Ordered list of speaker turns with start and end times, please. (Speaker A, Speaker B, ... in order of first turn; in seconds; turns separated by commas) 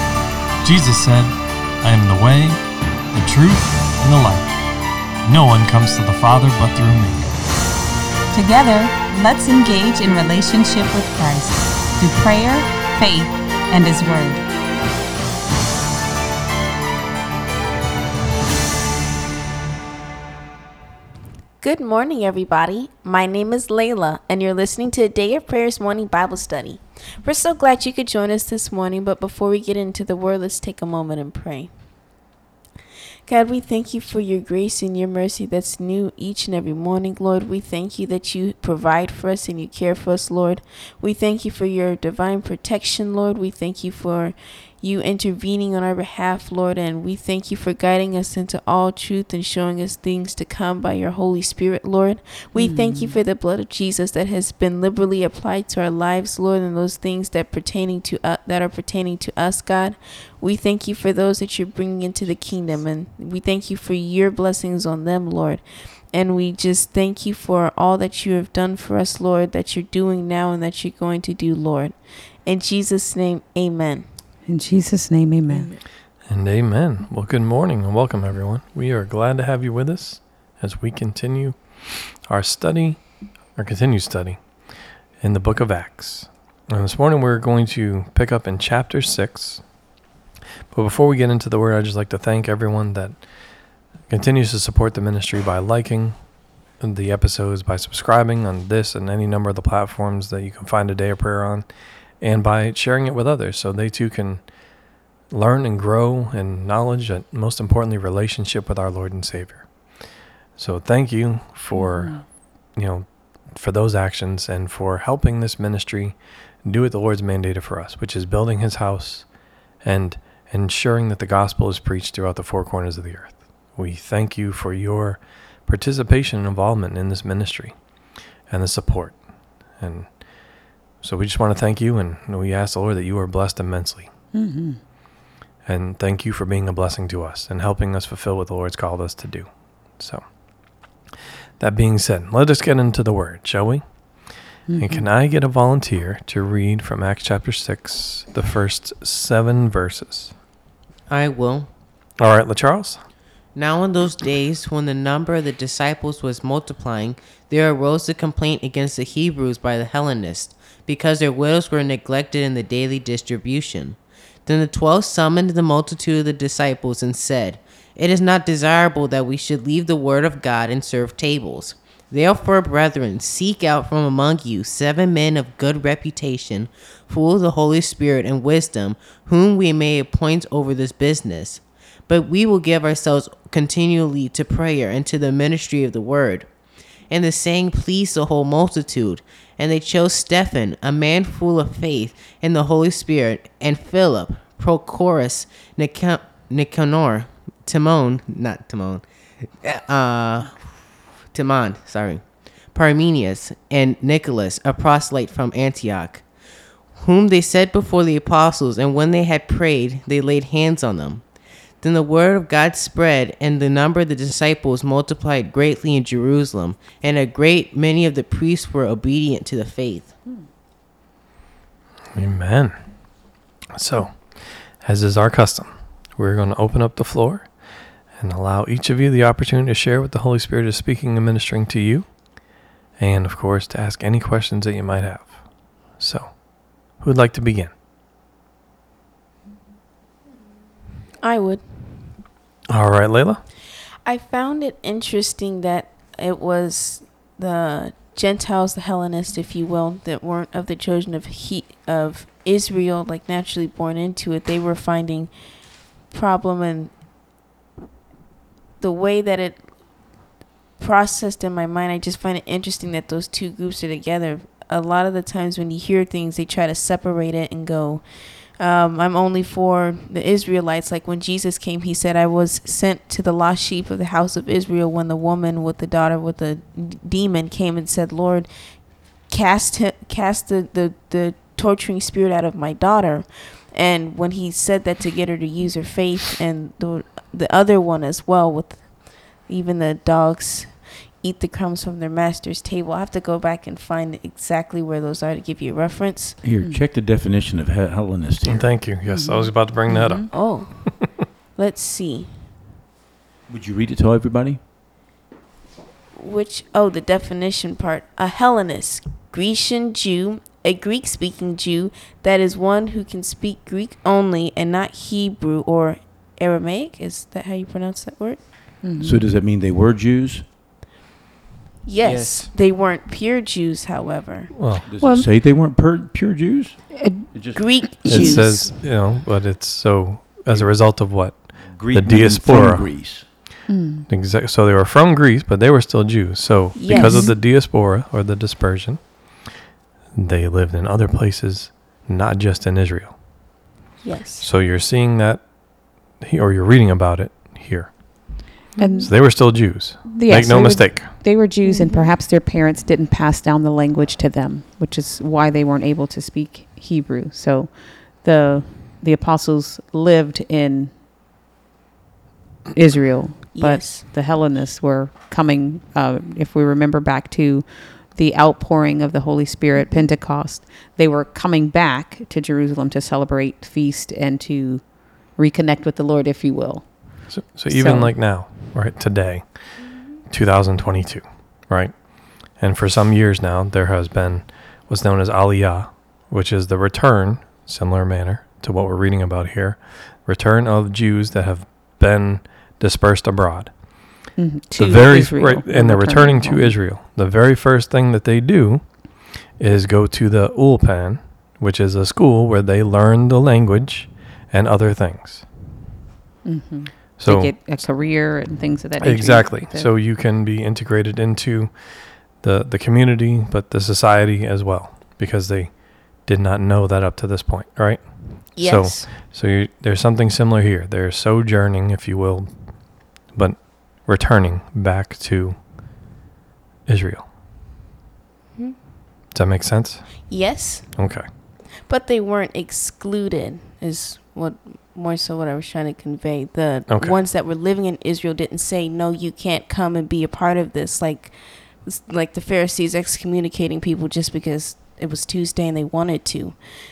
Speaker A: 0.6-2.6, Speaker A: 3.1-4.5, Speaker A: 5.2-7.4, Speaker B: 8.3-14.4, Speaker C: 21.6-31.7, Speaker C: 33.2-74.0, Speaker D: 52.5-53.1, Speaker D: 74.5-75.7, Speaker A: 76.3-83.0, Speaker A: 83.5-84.4, Speaker A: 85.2-89.6, Speaker A: 90.7-93.2, Speaker A: 94.1-96.2, Speaker A: 96.8-101.7, Speaker A: 102.2-104.4, Speaker A: 105.3-109.7, Speaker A: 110.5-112.2, Speaker D: 111.8-112.2, Speaker A: 112.8-119.3, Speaker A: 119.8-127.8, Speaker A: 128.5-129.2, Speaker A: 129.7-134.1, Speaker D: 134.3-134.8, Speaker A: 135.7-140.3, Speaker A: 141.6-143.8, Speaker D: 144.7-145.1, Speaker A: 144.8-150.3, Speaker E: 151.1-151.7, Speaker A: 152.2-153.0, Speaker E: 153.5-186.5, Speaker E: 187.1-199.0, Speaker E: 199.6-200.8, Speaker E: 201.3-206.3, Speaker E: 206.9-211.2, Speaker E: 211.8-220.2, Speaker A: 222.1-222.8, Speaker A: 223.7-227.5, Speaker A: 228.2-232.1, Speaker A: 233.0-235.4, Speaker A: 235.9-237.7, Speaker C: 241.2-242.1, Speaker A: 242.7-243.4, Speaker C: 244.0-255.3, Speaker C: 256.1-256.9, Speaker C: 258.8-259.7, Speaker C: 260.8-268.0, Speaker C: 268.6-278.5, Speaker C: 279.2-296.4, Speaker F: 296.4-298.7, Speaker A: 298.5-300.3, Speaker D: 299.1-300.3, Speaker C: 300.3-302.4, Speaker F: 303.5-304.6, Speaker C: 306.1-318.4, Speaker D: 318.8-319.2, Speaker F: 319.0-320.4, Speaker C: 321.9-324.5, Speaker E: 322.0-322.5, Speaker A: 324.5-324.8, Speaker F: 324.9-328.5, Speaker D: 325.0-325.3, Speaker D: 327.0-327.2, Speaker C: 327.5-328.7, Speaker A: 328.1-332.9, Speaker F: 331.7-333.3, Speaker D: 333.7-334.1, Speaker A: 334.1-339.1, Speaker C: 336.7-337.3, Speaker D: 337.0-337.3, Speaker A: 340.1-343.1, Speaker C: 344.0-344.5, Speaker A: 344.4-345.4, Speaker A: 346.2-348.5, Speaker D: 348.8-349.5, Speaker A: 349.0-351.1, Speaker D: 350.1-360.9, Speaker C: 351.6-352.1, Speaker D: 362.7-378.1, Speaker C: 363.5-364.1, Speaker A: 377.3-379.7, Speaker A: 380.3-393.7, Speaker D: 394.4-396.8, Speaker A: 394.8-405.4, Speaker D: 406.4-409.9, Speaker A: 407.2-407.8, Speaker A: 409.0-422.5, Speaker C: 418.6-419.1, Speaker A: 423.2-425.6, Speaker A: 426.9-427.3, Speaker A: 429.3-430.3, Speaker C: 430.3-430.9, Speaker A: 430.9-431.2, Speaker C: 431.9-446.6, Speaker A: 436.9-437.2